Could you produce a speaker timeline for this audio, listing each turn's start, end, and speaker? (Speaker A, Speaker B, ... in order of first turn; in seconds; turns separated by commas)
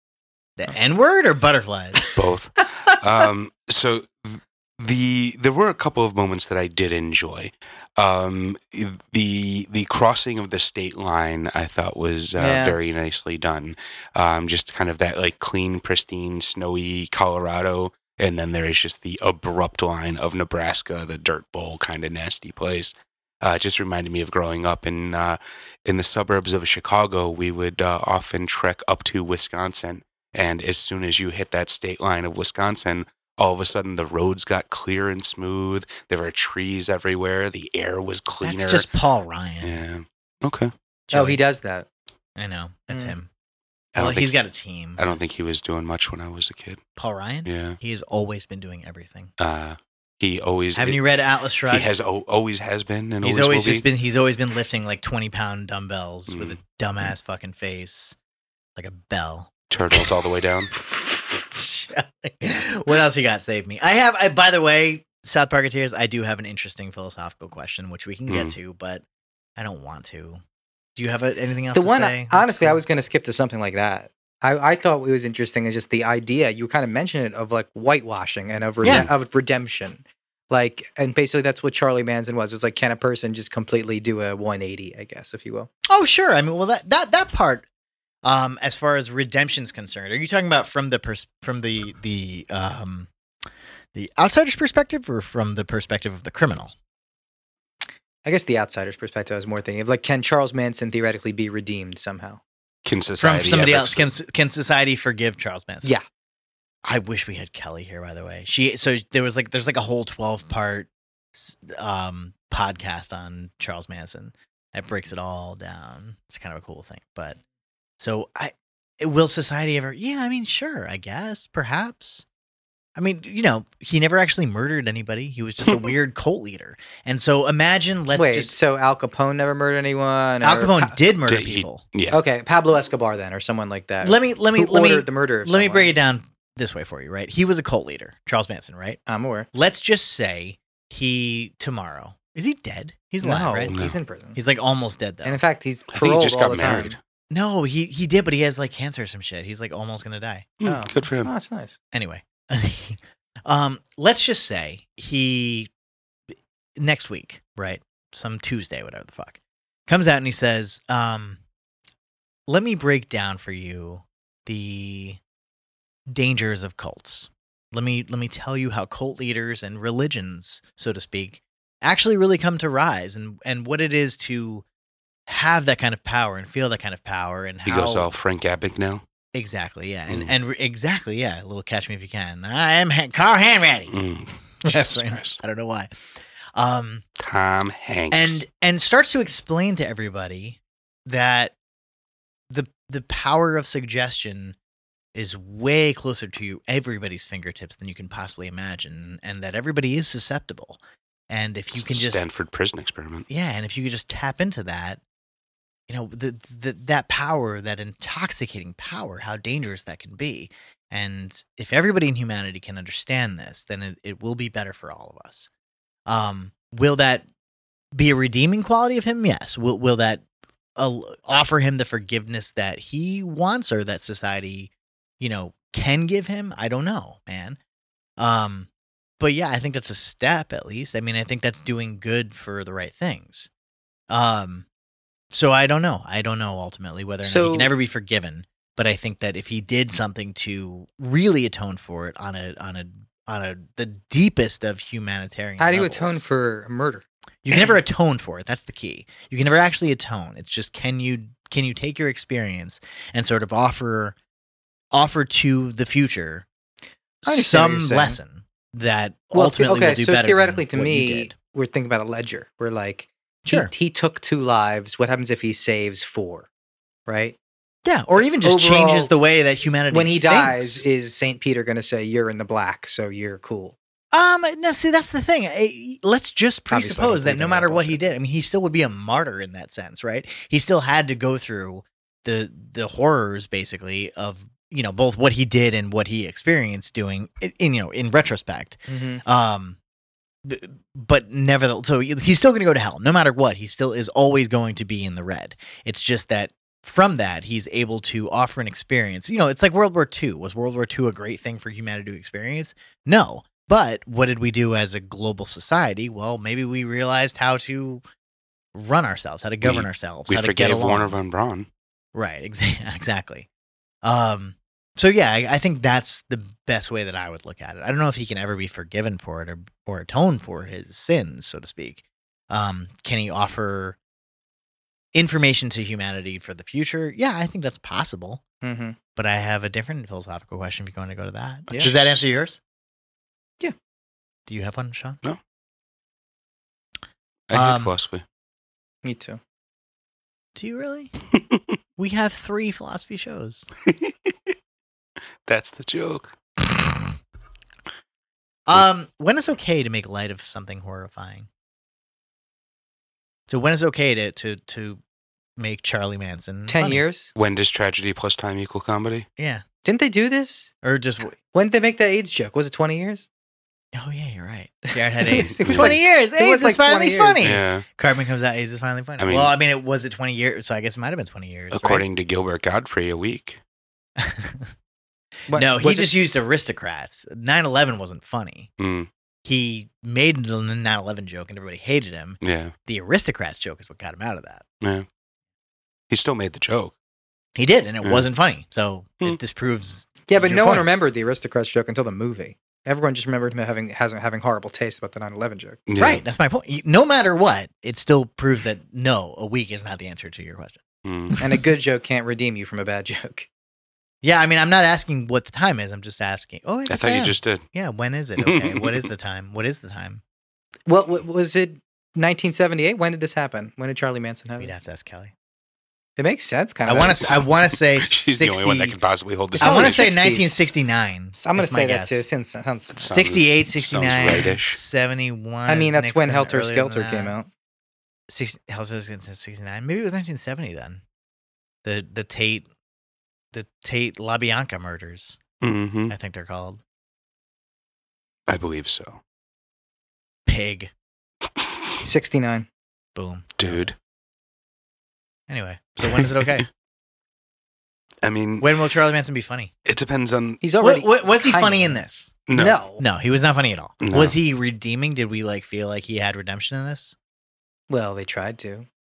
Speaker A: 0.6-2.2, Speaker B: 2.1-38.9, Speaker C: 12.4-12.8, Speaker A: 38.4-39.8, Speaker B: 39.6-40.7, Speaker A: 41.1-41.4, Speaker C: 41.1-41.9, Speaker A: 42.4-43.3, Speaker C: 42.9-43.2, Speaker B: 43.9-44.4, Speaker A: 43.9-45.1, Speaker B: 45.0-46.8, Speaker A: 47.0-49.3, Speaker B: 47.4-47.8, Speaker B: 49.4-51.0, Speaker A: 50.7-52.0, Speaker B: 51.7-53.9, Speaker A: 53.2-58.1, Speaker B: 56.3-56.6, Speaker A: 58.8-60.0, Speaker B: 59.7-60.7, Speaker A: 60.8-69.0, Speaker B: 68.3-68.6, Speaker A: 69.6-70.4, Speaker A: 71.0-72.8, Speaker C: 71.7-85.7, Speaker A: 78.8-79.1, Speaker B: 78.8-79.1, Speaker A: 85.9-87.7, Speaker A: 88.2-93.1, Speaker A: 93.9-96.7, Speaker C: 98.2-102.4, Speaker B: 102.8-104.1, Speaker A: 103.2-105.9, Speaker A: 106.8-117.4, Speaker A: 118.0-122.2, Speaker A: 123.0-128.5, Speaker B: 125.6-125.9, Speaker C: 128.1-130.9, Speaker A: 130.4-131.8, Speaker B: 131.3-132.2, Speaker C: 132.1-135.9, Speaker A: 134.0-139.0, Speaker C: 139.1-139.5, Speaker A: 139.5-143.8, Speaker C: 143.2-144.4, Speaker B: 143.7-144.0, Speaker A: 144.3-145.4, Speaker C: 145.2-147.0, Speaker B: 145.9-147.0, Speaker A: 147.3-150.5, Speaker B: 150.6-151.3, Speaker C: 150.6-151.7, Speaker A: 151.9-155.7, Speaker A: 156.8-161.4, Speaker A: 162.5-165.2, Speaker A: 166.1-174.6, Speaker A: 175.3-178.1, Speaker B: 177.7-179.0, Speaker A: 179.3-183.9, Speaker B: 180.1-180.3, Speaker B: 183.9-185.4, Speaker A: 184.6-185.9, Speaker A: 186.5-187.1, Speaker B: 187.2-188.4, Speaker A: 188.1-191.5, Speaker A: 192.5-194.6, Speaker A: 195.1-202.2, Speaker B: 201.7-203.3, Speaker A: 203.3-205.0, Speaker A: 205.9-215.5, Speaker A: 216.1-217.2, Speaker A: 217.9-220.2, Speaker A: 220.8-227.6, Speaker A: 228.2-233.5, Speaker A: 234.1-234.6, Speaker A: 235.3-246.2, Speaker C: 237.2-237.7, Speaker C: 245.6-247.8, Speaker A: 247.4-254.2, Speaker A: 254.9-256.4, Speaker A: 257.2-261.3, Speaker C: 257.2-258.2, Speaker C: 259.3-266.5, Speaker C: 267.1-267.4, Speaker A: 267.8-270.9, Speaker C: 268.2-269.1, Speaker C: 269.9-273.8, Speaker A: 274.1-289.8, Speaker C: 276.7-278.0, Speaker C: 288.9-289.2, Speaker A: 290.4-308.0, Speaker A: 308.7-311.2, Speaker B: 309.6-311.7, Speaker A: 312.1-313.5, Speaker A: 314.0-324.0, Speaker A: 325.1-328.4, Speaker C: 328.6-328.9, Speaker A: 329.1-332.6, Speaker B: 331.8-332.1, Speaker A: 334.5-335.2, Speaker B: 337.5-338.2, Speaker A: 337.5-337.9, Speaker C: 339.0-339.4, Speaker A: 340.5-341.1, Speaker A: 342.0-343.7, Speaker B: 343.9-344.5, Speaker B: 345.4-346.3, Speaker A: 348.7-351.5, Speaker A: 353.5-355.0, Speaker A: 355.6-357.0, Speaker C: 356.7-357.3, Speaker B: 357.3-359.3, Speaker A: 359.4-359.6, Speaker C: 359.8-360.7, Speaker A: 360.8-361.4, Speaker C: 361.5-363.3, Speaker A: 363.9-372.1, Speaker C: 365.4-367.4, Speaker B: 365.6-366.0, Speaker B: 367.4-367.8, Speaker B: 369.2-369.6, Speaker B: 371.7-373.6, Speaker A: 374.2-374.7, Speaker C: 375.5-376.1, Speaker A: 375.5-378.7, Speaker B: 378.8-379.1, Speaker A: 379.4-384.6, Speaker B: 382.4-382.7, Speaker B: 384.8-385.1, Speaker B: 386.1-386.9, Speaker A: 387.6-390.9, Speaker B: 388.0-388.3, Speaker C: 390.3-395.8, Speaker B: 395.9-396.2, Speaker A: 396.0-401.6, Speaker B: 401.0-401.3, Speaker C: 401.4-403.5, Speaker A: 404.2-410.2, Speaker B: 406.9-407.6, Speaker B: 408.4-409.0, Speaker C: 410.9-414.7, Speaker A: 414.6-415.3, Speaker C: 416.2-417.3, Speaker A: 416.8-419.0, Speaker B: 418.0-420.1, Speaker A: 419.6-422.2, Speaker C: 419.6-420.6, Speaker C: 421.4-423.1, Speaker B: 422.9-424.8, Speaker A: 423.1-427.3, Speaker C: 424.1-424.5, Speaker C: 425.6-427.5, Speaker A: 428.3-431.0, Speaker A: 431.8-432.7, Speaker A: 433.5-435.4, Speaker B: 435.6-436.1, Speaker A: 436.1-436.8, Speaker B: 438.5-439.2, Speaker A: 440.4-440.9, Speaker C: 442.0-442.7, Speaker A: 443.1-443.9, Speaker B: 443.6-443.9, Speaker A: 445.5-446.7, Speaker B: 446.0-446.6, Speaker B: 448.2-448.9, Speaker A: 448.6-449.7, Speaker B: 449.8-450.6, Speaker C: 450.6-453.0, Speaker A: 450.8-452.4, Speaker B: 452.5-452.8, Speaker A: 453.0-457.1, Speaker B: 454.0-454.4, Speaker C: 457.9-458.9